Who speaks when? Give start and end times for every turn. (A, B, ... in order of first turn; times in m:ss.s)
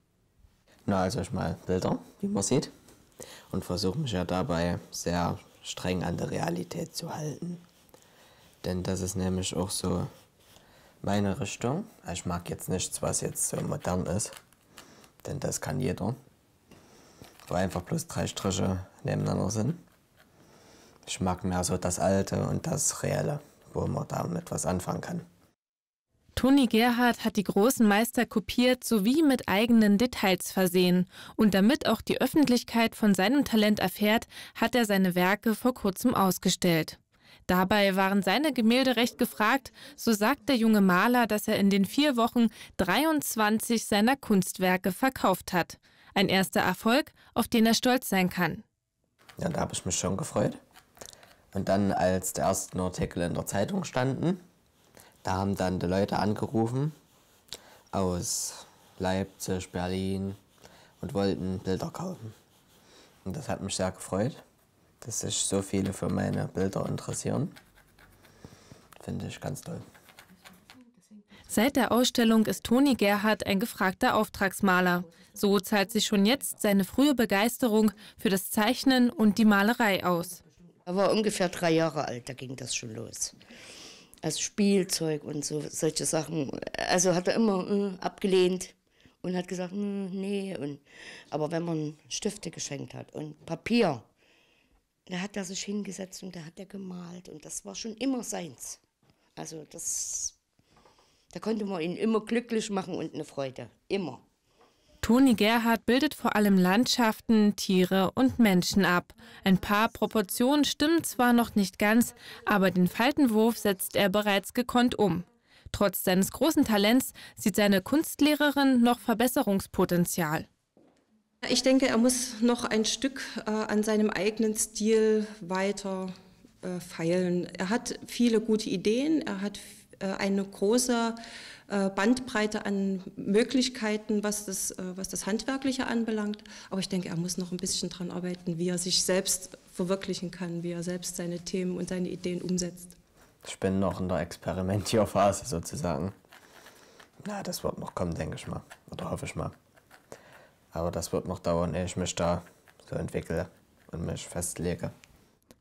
0:00.9-0:02.7 A
0:03.5-0:07.6 A
0:08.6-0:10.1 A
0:11.0-0:14.4 A
0:15.2-0:16.2 A
0:17.5-0:19.8 A
0:21.1-0:25.2 A
0:26.4-0:48.6 B
0:49.4-0:50.6 A
0:51.5-0:54.4 A
0:55.2-0:56.9 A
0:57.9-1:00.4 A
1:01.0-1:02.3 A
1:03.2-1:04.4 A
1:05.0-1:07.6 A
1:09.0-1:09.8 A
1:11.5-1:20.4 B
1:20.9-1:23.4 C
1:24.2-1:34.1 C
1:35.1-1:38.8 C
1:39.4-1:40.4 C
1:41.3-1:44.2 C
1:45.0-2:00.5 B
2:01.4-2:11.2 D
2:11.7-2:23.0 D
2:23.4-2:26.2 A
2:27.2-2:29.5 A
2:30.7-2:34.9 A